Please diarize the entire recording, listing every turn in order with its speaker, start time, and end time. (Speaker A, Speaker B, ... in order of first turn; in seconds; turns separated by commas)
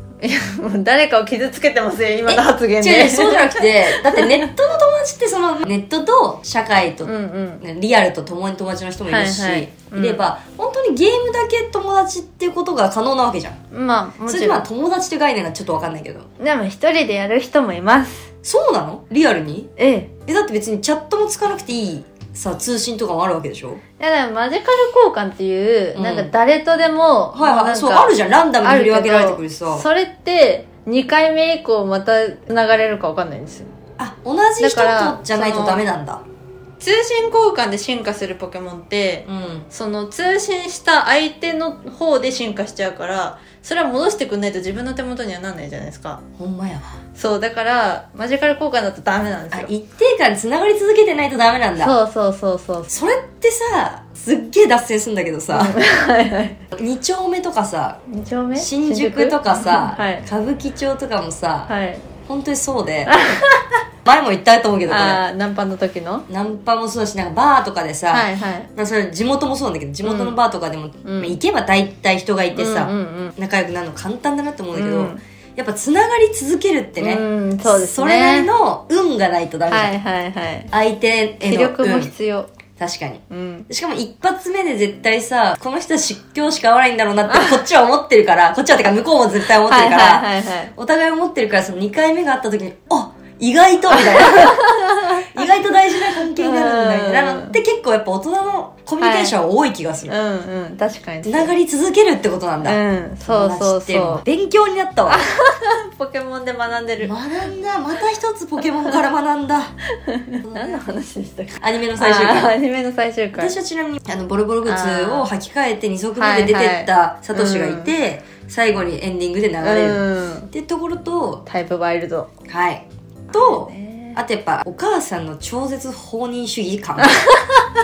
Speaker A: 0.2-4.5, Speaker B: 2.3-13.6, Speaker A: 7.0-7.6, Speaker A: 9.1-10.2, Speaker A: 13.7-14.7, Speaker B: 14.3-16.3, Speaker A: 16.4-18.3, Speaker B: 18.4-19.7, Speaker A: 19.8-20.1, Speaker B: 20.2-23.8, Speaker A: 24.0-33.7, Speaker B: 25.9-26.3, Speaker B: 27.3-29.9, Speaker B: 34.0-36.2, Speaker A: 34.6-35.9, Speaker A: 36.8-46.2, Speaker B: 39.3-39.7, Speaker B: 46.4-47.0, Speaker A: 47.2-49.7, Speaker B: 49.5-52.0, Speaker A: 51.8-52.9, Speaker B: 52.9-55.8, Speaker A: 55.5-56.6, Speaker B: 56.7-58.0, Speaker A: 58.1-60.2, Speaker B: 58.6-61.7, Speaker A: 61.7-62.0, Speaker B: 62.2-63.1, Speaker A: 63.1-63.8, Speaker B: 64.0-65.2, Speaker A: 64.9-66.3, Speaker B: 66.3-79.9, Speaker A: 68.1-68.7, Speaker A: 70.0-70.4, Speaker A: 71.0-71.4, Speaker A: 72.5-73.3, Speaker A: 74.7-75.2, Speaker A: 77.0-78.5, Speaker A: 79.7-80.7, Speaker B: 80.7-82.1, Speaker A: 81.4-82.5, Speaker B: 82.8-100.2, Speaker A: 83.3-83.7, Speaker A: 87.3-87.6, Speaker A: 89.7-90.7, Speaker A: 93.9-95.5, Speaker A: 96.1-97.6, Speaker A: 99.0-99.3, Speaker A: 100.1-101.5, Speaker B: 101.3-105.3, Speaker A: 102.6-104.2, Speaker A: 105.1-107.2, Speaker B: 107.0-109.8, Speaker A: 110.0-113.5, Speaker B: 110.4-110.8, Speaker B: 111.6-112.5, Speaker B: 113.4-121.4, Speaker A: 114.6-115.3, Speaker A: 116.2-117.9, Speaker A: 119.6-120.5, Speaker A: 121.5-122.3, Speaker B: 122.5-127.2, Speaker A: 123.3-124.2, Speaker A: 127.1-127.7